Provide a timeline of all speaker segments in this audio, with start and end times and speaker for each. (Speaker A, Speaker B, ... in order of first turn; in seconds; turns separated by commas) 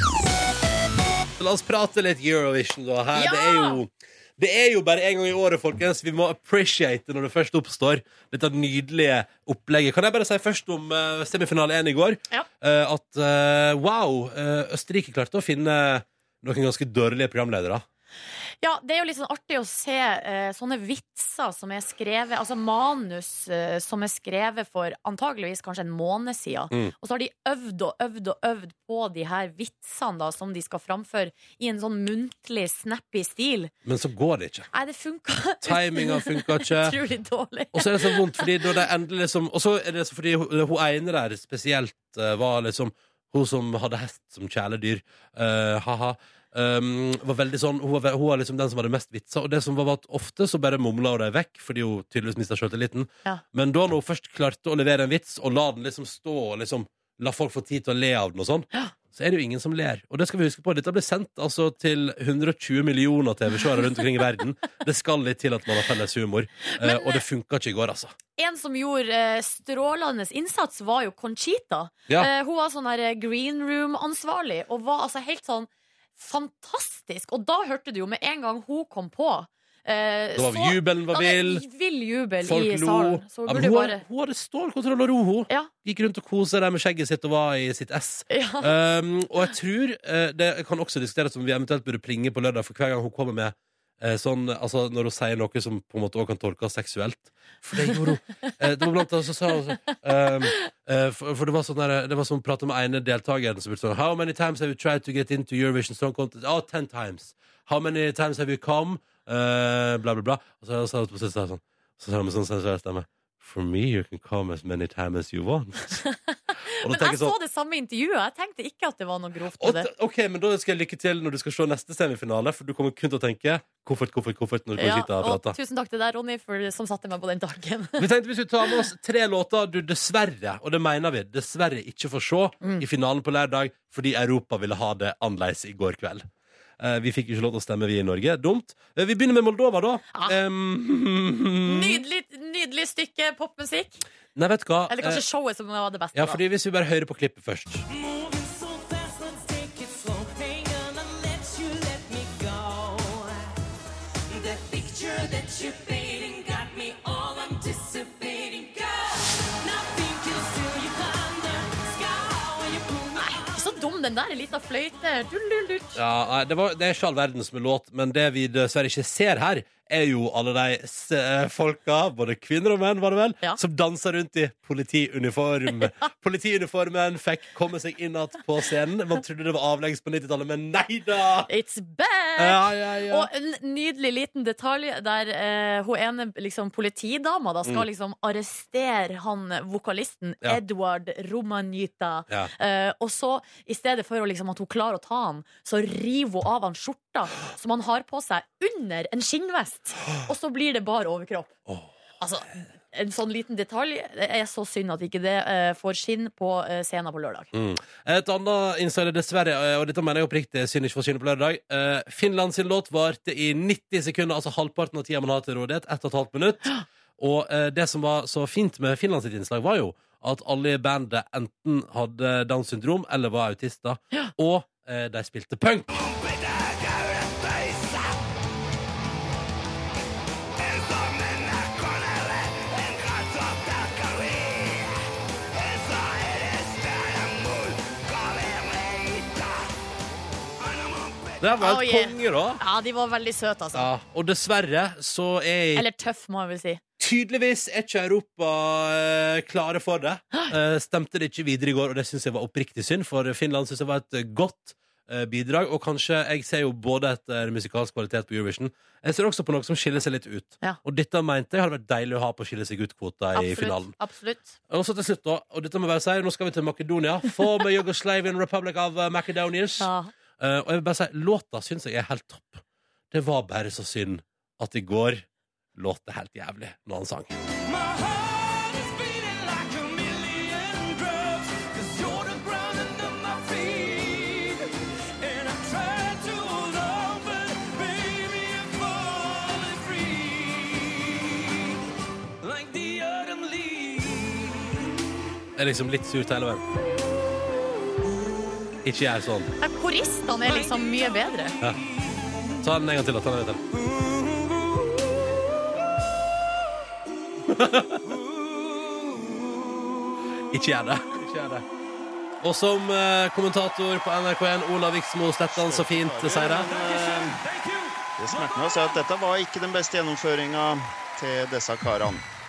Speaker A: 1.4-17.8, Speaker B: 3.1-3.8, Speaker B: 18.6-33.7, Speaker A: 33.8-34.7, Speaker B: 34.7-38.8, Speaker A: 35.6-37.0, Speaker A: 37.7-68.1, Speaker B: 66.7-67.2, Speaker B: 68.4-84.0, Speaker A: 80.3-81.6, Speaker A: 82.4-116.0, Speaker B: 88.3-88.7, Speaker B: 116.0-119.9, Speaker A: 116.8-117.3, Speaker A: 119.6-125.5, Speaker B: 124.8-128.0, Speaker A: 128.0-136.2, Speaker A: 136.8-142.0, Speaker B: 141.6-144.0, Speaker A: 144.3-145.2, Speaker B: 144.9-146.4, Speaker A: 146.1-147.8, Speaker C: 147.9-153.5, Speaker C: 154.3-163.7, Speaker B: 163.2-166.0, Speaker A: 165.9-181.5, Speaker B: 181.5-201.5, Speaker A: 182.4-183.3, Speaker B: 202.2-207.5, Speaker A: 207.5-225.9, Speaker A: 241.4-242.6, Speaker B: 241.6-243.9, Speaker A: 243.7-245.8, Speaker B: 245.7-246.8, Speaker A: 247.0-263.9, Speaker B: 263.3-264.6, Speaker A: 264.7-277.3, Speaker B: 269.8-270.1, Speaker C: 277.6-291.7, Speaker C: 292.4-294.8, Speaker A: 295.6-296.6, Speaker A: 298.8-299.5, Speaker B: 299.6-301.5, Speaker A: 302.6-303.6, Speaker C: 304.0-304.4, Speaker A: 307.5-308.0, Speaker C: 308.1-309.5, Speaker A: 310.5-311.6, Speaker A: 312.4-316.8, Speaker D: 315.5-317.3, Speaker C: 316.4-319.0, Speaker D: 318.2-322.2